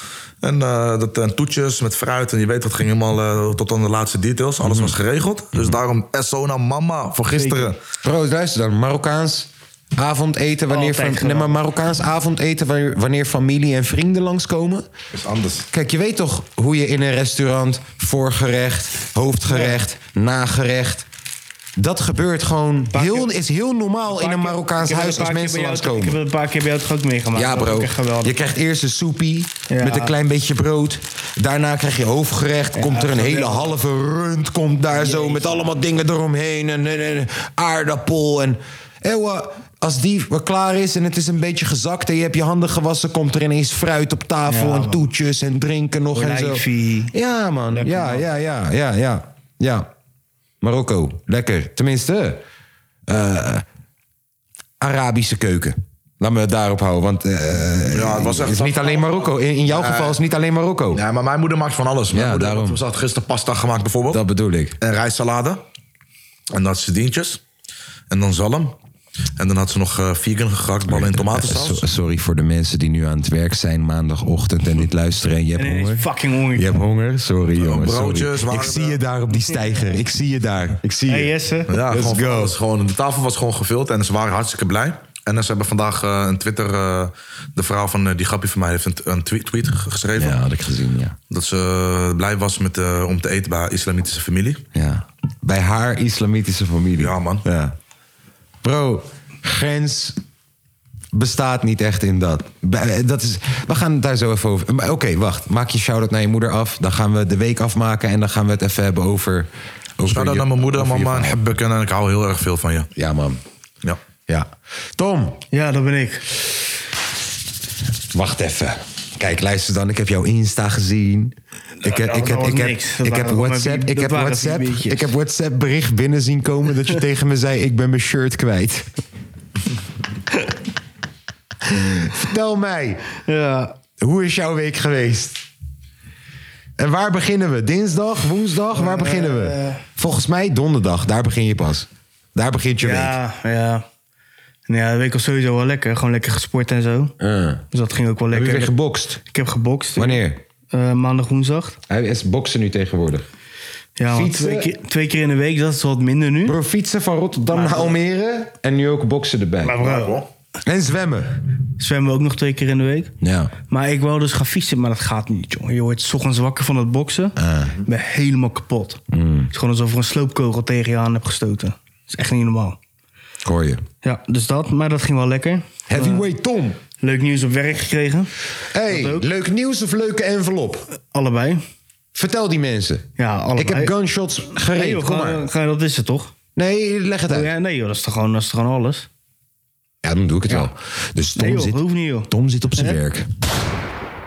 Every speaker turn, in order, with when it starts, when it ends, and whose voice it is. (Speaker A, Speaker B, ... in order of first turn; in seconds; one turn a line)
Speaker A: 0.4-7.8
Speaker B: 4.6-4.9
Speaker C: 7.3-7.7
Speaker B: 8.0-14.9
Speaker C: 10.7-11.6
Speaker A: 15.1-15.7
Speaker B: 15.7-21.1
Speaker C: 19.5-19.8
Speaker B: 21.8-26.2
Speaker C: 22.9-23.3
Speaker C: 24.1-28.3
Speaker B: 27.3-49.9
Speaker C: 29.7-30.1
Speaker C: 32.7-33.7
Speaker C: 34.9-35.5
Speaker C: 44.5-45.1
Speaker C: 46.1-47.1
Speaker C: 47.7-48.2
Speaker B: 50.6-52.4
Speaker B: 53.1-53.6
Speaker B: 54.8-61.0
Speaker A: 57.9-60.2
Speaker A: 60.9-64.2
Speaker B: 62.1-62.8
Speaker B: 64.1-64.8
Speaker A: 64.8-65.6
Speaker A: 66.5-67.4
Speaker A: 68.1-68.7
Speaker A: 69.4-71.8
Speaker B: 70.9-82.6
Speaker C: 75.5-76.8
Speaker A: 77.6-79.0
Speaker C: 79.3-80.0
Speaker C: 81.1-81.7
Speaker A: 81.7-90.4
Speaker B: 90.2-91.2
Speaker A: 91.3-94.6
Speaker B: 94.7-97.8
Speaker A: 97.0-97.4
Speaker B: 98.6-100.2
Speaker B: 101.1-111.4
Speaker A: 110.0-112.9
Speaker B: 113.0-113.4
Speaker B: 114.3-115.4
Speaker C: 115.5-116.2
Speaker B: 118.1-128.9
Speaker C: 121.8-125.1
Speaker B: 131.6-133.0
Speaker C: 133.2-133.7
Speaker B: 134.0-135.4
Speaker B: 136.8-143.2
Speaker C: 138.7-139.8
Speaker C: 142.8-143.8
Speaker C: 144.7-147.1
Speaker B: 147.2-147.6
Speaker C: 147.7-151.8
Speaker B: 148.3-149.2
Speaker B: 149.9-150.4
Speaker B: 151.9-153.3
Speaker C: 154.0-156.6
Speaker B: 154.1-154.7
Speaker B: 156.4-159.9
Speaker C: 157.5-158.0
Speaker C: 159.6-160.2
Speaker A: 159.8-160.2
Speaker B: 160.6-161.3
Speaker C: 161.8-163.1
Speaker B: 163.2-163.5
Speaker C: 163.7-167.3
Speaker B: 167.4-167.7
Speaker C: 167.8-169.0
Speaker B: 169.1-169.5
Speaker C: 169.5-172.8
Speaker B: 173.4-173.8
Speaker C: 174.0-176.3
Speaker B: 175.9-176.8
Speaker C: 177.0-178.3
Speaker B: 178.7-180.9
Speaker C: 178.8-179.2
Speaker C: 181.1-181.6
Speaker B: 182.1-185.4
Speaker C: 183.2-183.9
Speaker C: 184.5-186.3
Speaker B: 186.6-187.5
Speaker C: 187.3-189.1
Speaker B: 190.0-193.3
Speaker C: 191.3-193.0